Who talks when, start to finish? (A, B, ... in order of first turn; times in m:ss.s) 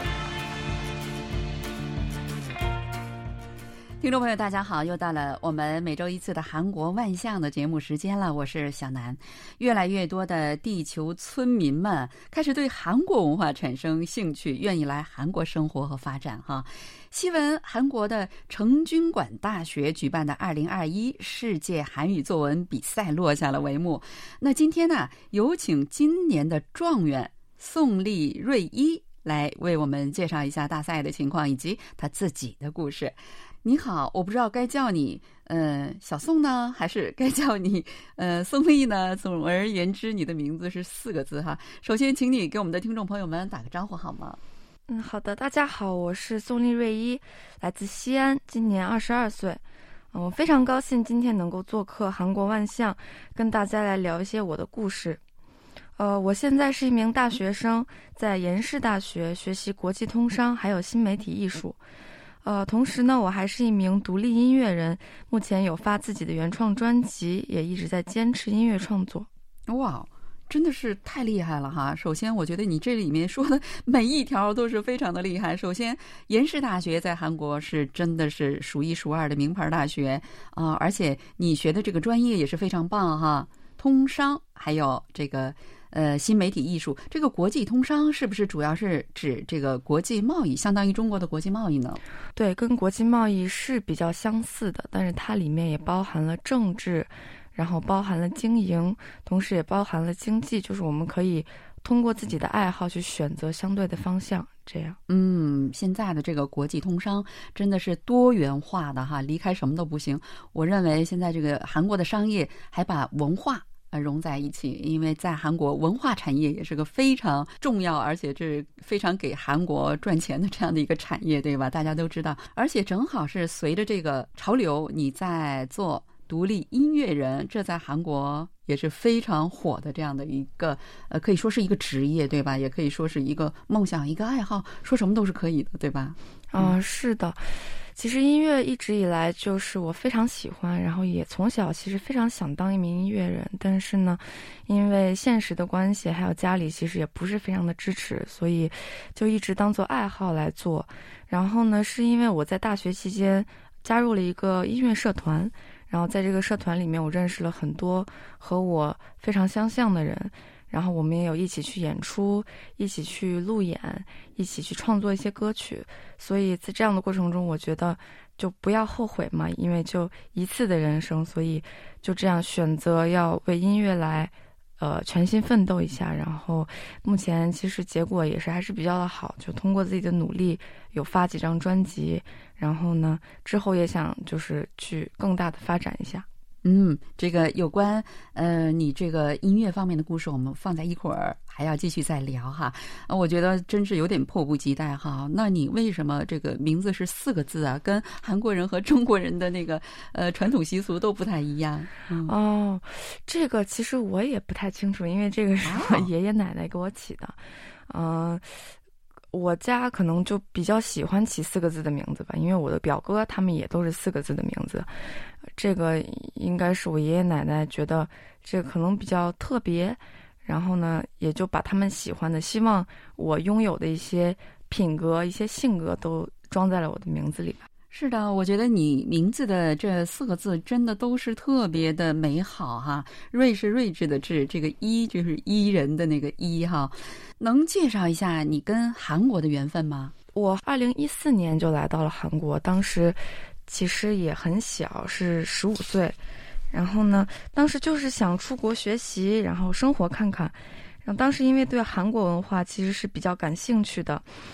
0:04.0-0:44.4 A
0:44.9-0:55.2 B
0:56.0-1:01.8 B
1:02.4-1:09.3 B
1:09.7-1:32.0 A
1:32.3-1:45.0 B
1:45.1-2:16.8 A
2:16.5-2:17.4 B
2:17.9-3:06.2 B
3:06.6-3:22.3 A
3:22.2-3:28.7 B
3:25.6-3:26.1 A
3:29.3-3:34.9 B
3:35.6-3:47.7 B
3:47.9-4:00.1 A
4:00.3-4:06.2 B
4:06.7-4:14.3 B